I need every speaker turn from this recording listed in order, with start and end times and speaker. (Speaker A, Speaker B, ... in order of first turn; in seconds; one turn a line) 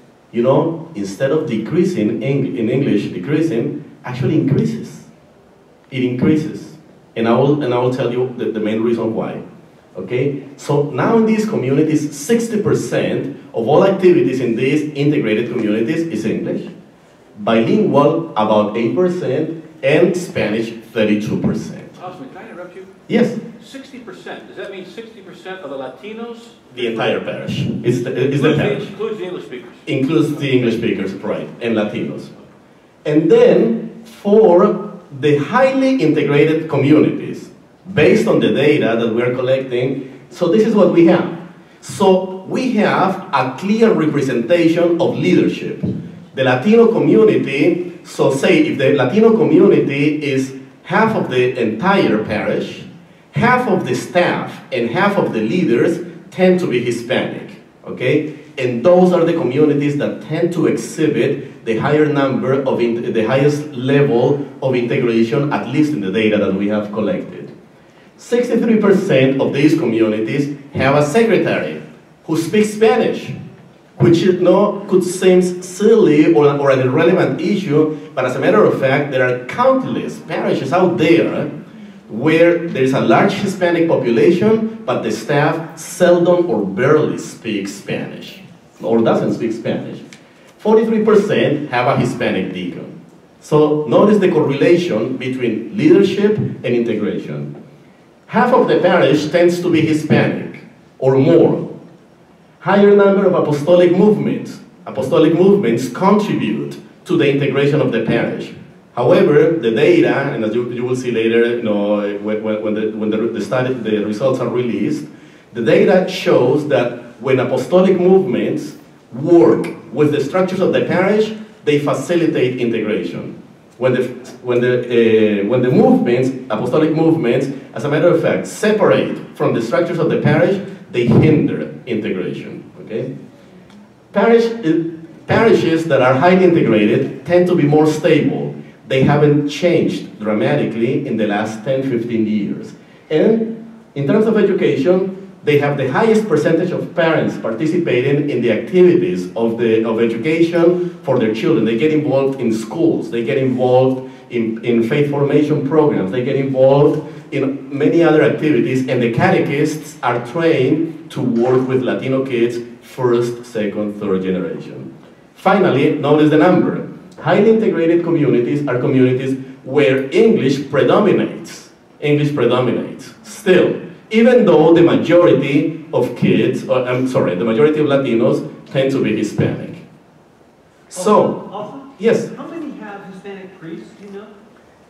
Speaker A: 0.3-5.1
Speaker A: 5.9-9.4
Speaker A: 9.9-16.7
Speaker A: 17.4-21.9
Speaker B: 22.0-22.9
Speaker A: 23.1-23.4
Speaker B: 23.6-27.2
Speaker A: 26.7-28.9
Speaker B: 28.3-29.8
Speaker A: 29.9-32.3
Speaker B: 30.4-30.7
Speaker A: 33.0-67.5
Speaker A: 68.2-73.4
Speaker A: 74.0-81.5
Speaker A: 82.1-90.0
Speaker A: 90.6-97.5
Speaker A: 98.3-101.7
Speaker A: 102.6-133.1
Speaker A: 134.1-179.8
Speaker A: 180.9-182.3
Speaker C: 180.9-184.3